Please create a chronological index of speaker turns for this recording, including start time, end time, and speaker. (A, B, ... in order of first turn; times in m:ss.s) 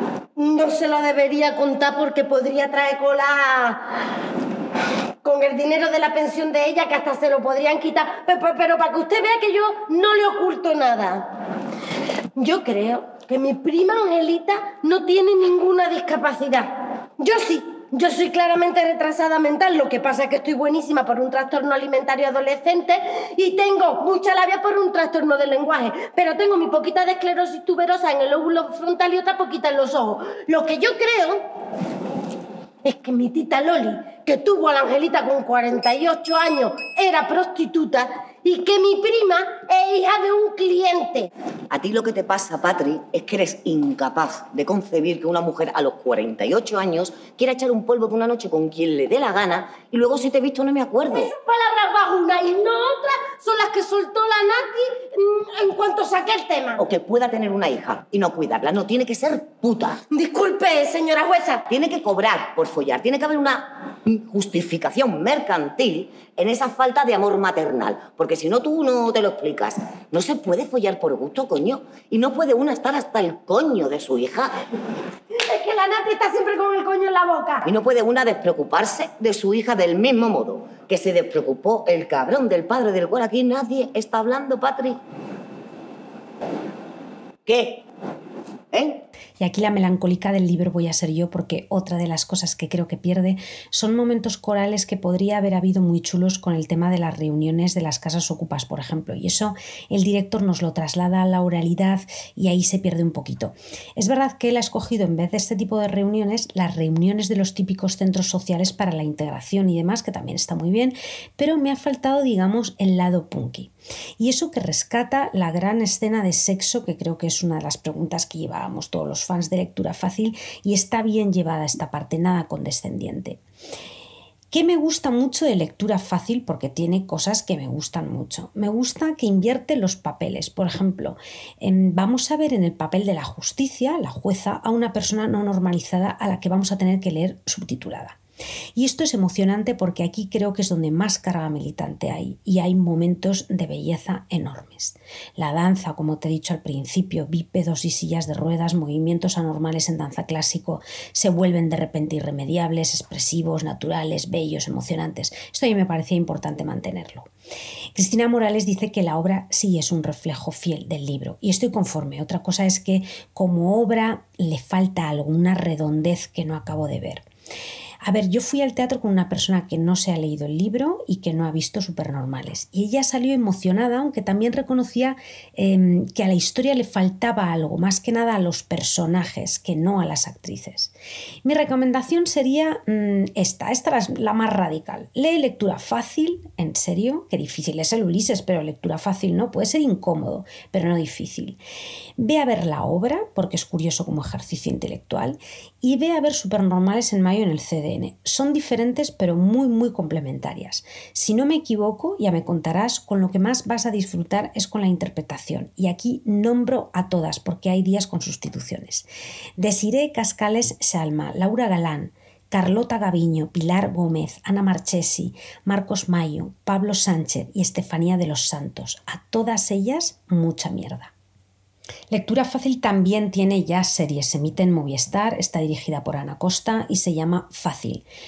0:00.4-0:03.9 A
0:05.2-0:11.3 A
0:12.4-0:31.4 A
0:32.8-0:41.3 A
0:41.7-0:51.3 B
0:51.1-0:56.8 A
0:56.8-1:00.0 B
1:00.1-1:01.6 A
1:01.7-1:14.5 B
1:15.5-1:17.7 A
1:17.6-1:25.0 B
1:27.5-1:27.8 B
1:28.7-1:29.0 B
1:29.4-2:03.4 C
2:04.5-2:18.2 C
2:18.8-2:37.3 C
2:38.0-2:47.2 C
2:48.0-3:00.9 C
3:01.4-3:11.6 C
3:12.2-3:29.1 C
3:29.6-3:41.1 C
3:42.1-3:48.0 C